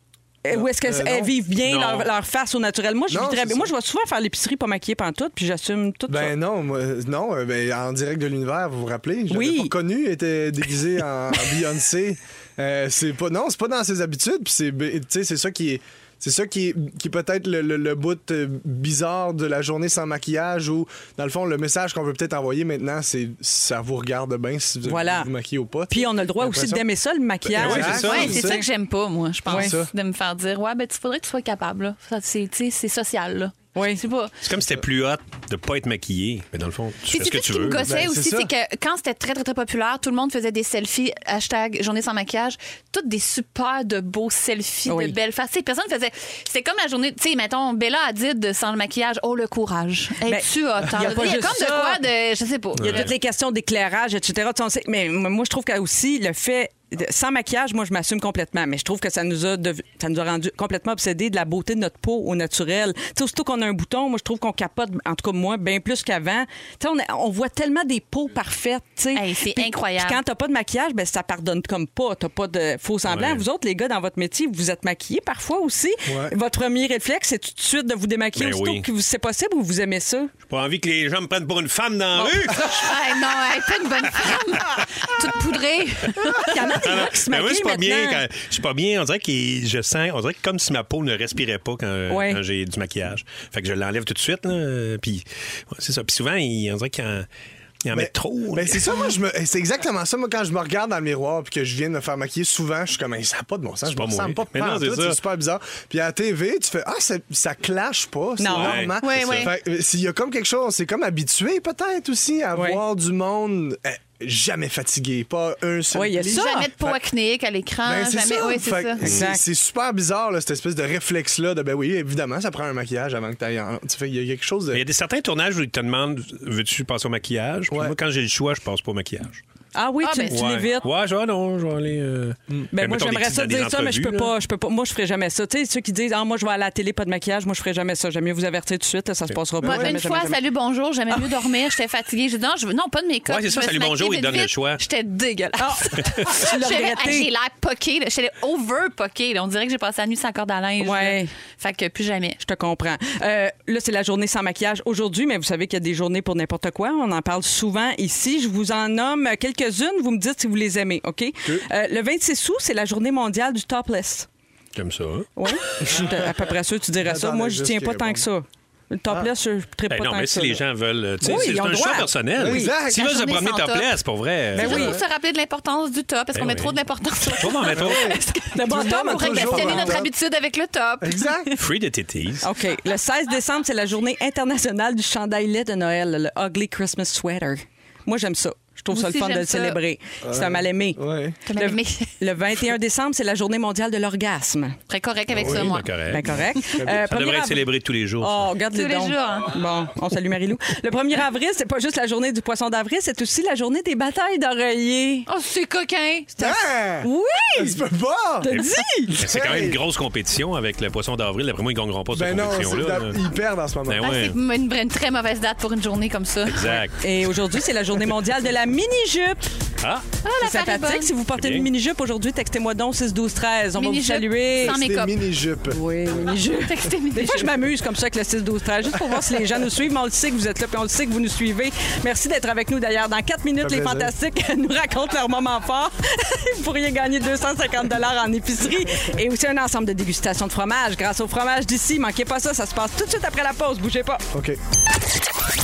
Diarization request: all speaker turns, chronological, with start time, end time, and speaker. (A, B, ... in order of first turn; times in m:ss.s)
0:00.4-0:06.3 A
0:00.5-0:01.3 B
0:01.6-0:02.1 C
0:03.1-0:03.7 B
0:06.1-0:26.8 B
0:09.3-0:09.7 A
0:24.8-0:25.3 A
0:25.9-0:28.6 A
0:27.4-0:28.6 B
0:27.5-0:28.5 C
0:28.0-0:34.3 D
0:29.5-0:29.8 A
0:29.5-0:29.9 B
0:33.7-0:34.0 A
0:34.4-0:37.9 C
0:37.1-0:53.1 D
0:37.8-0:38.5 B
0:44.8-0:45.2 A
0:50.2-0:52.0 A
0:52.8-1:20.3 A
1:09.1-1:10.2 D
1:13.1-1:13.4 C
1:16.0-1:16.3 B
1:18.4-1:18.8 C
1:20.5-1:22.9 C
1:22.5-1:26.8 D
1:26.4-1:28.2 A
1:26.8-1:37.3 C
1:32.1-1:32.4 A
1:37.8-1:38.9 C
1:37.9-1:57.0 B
1:43.9-1:45.2 C
1:48.4-1:48.9 A
1:48.5-1:49.5 C
1:49.0-1:49.5 D
1:52.5-1:52.8 A
1:55.9-1:56.7 A
1:56.3-1:59.0 D
1:57.8-2:04.8 B
1:59.0-1:59.4 A
2:04.7-2:09.4 C
2:07.7-2:07.9 B
2:09.7-2:10.9 A
2:10.0-2:10.4 D
2:10.3-2:14.3 C
2:12.7-2:20.4 A
2:19.6-2:19.9 B
2:19.6-2:32.4 D
2:23.3-2:24.8 C
2:25.6-2:27.3 A
2:30.8-2:31.3 A
2:32.4-2:44.3 A
2:44.7-2:45.3 C
2:45.4-2:50.6 A
2:45.8-2:46.3 B
2:47.0-2:48.3 B
2:49.9-2:54.9 C
2:51.2-2:52.7 A
2:52.4-2:53.0 B
2:52.9-2:54.0 D
2:54.5-3:01.6 D
2:54.6-2:55.0 A
2:54.6-2:54.9 B
2:56.3-2:58.2 C
2:57.7-3:00.1 B
2:58.5-3:00.0 A
3:01.0-3:01.5 B
3:01.6-3:02.4 C
3:02.4-3:14.8 A
3:08.9-3:09.8 D
3:10.2-3:11.4 B
3:11.4-3:12.1 D
3:14.9-3:16.0 D
3:15.3-3:18.5 C
3:16.1-3:25.3 A
3:18.7-3:19.5 D
3:25.3-3:26.3 D
3:26.4-3:27.8 A
3:26.4-3:28.5 B
3:28.4-3:29.2 A
3:28.5-3:33.2 C
3:29.1-3:29.8 B
3:32.1-3:34.1 B
3:33.8-3:34.4 C
3:34.0-3:36.8 D
3:36.4-3:37.0 C
3:37.0-3:39.4 A
3:39.8-3:40.0 C
3:40.2-3:41.1 D
3:40.4-3:44.8 A
3:41.3-3:41.7 C
3:43.7-3:45.2 D
3:44.6-3:45.8 B
3:45.7-4:04.2 A
3:46.5-3:47.5 D
3:53.6-3:54.1 B
4:04.3-4:04.6 B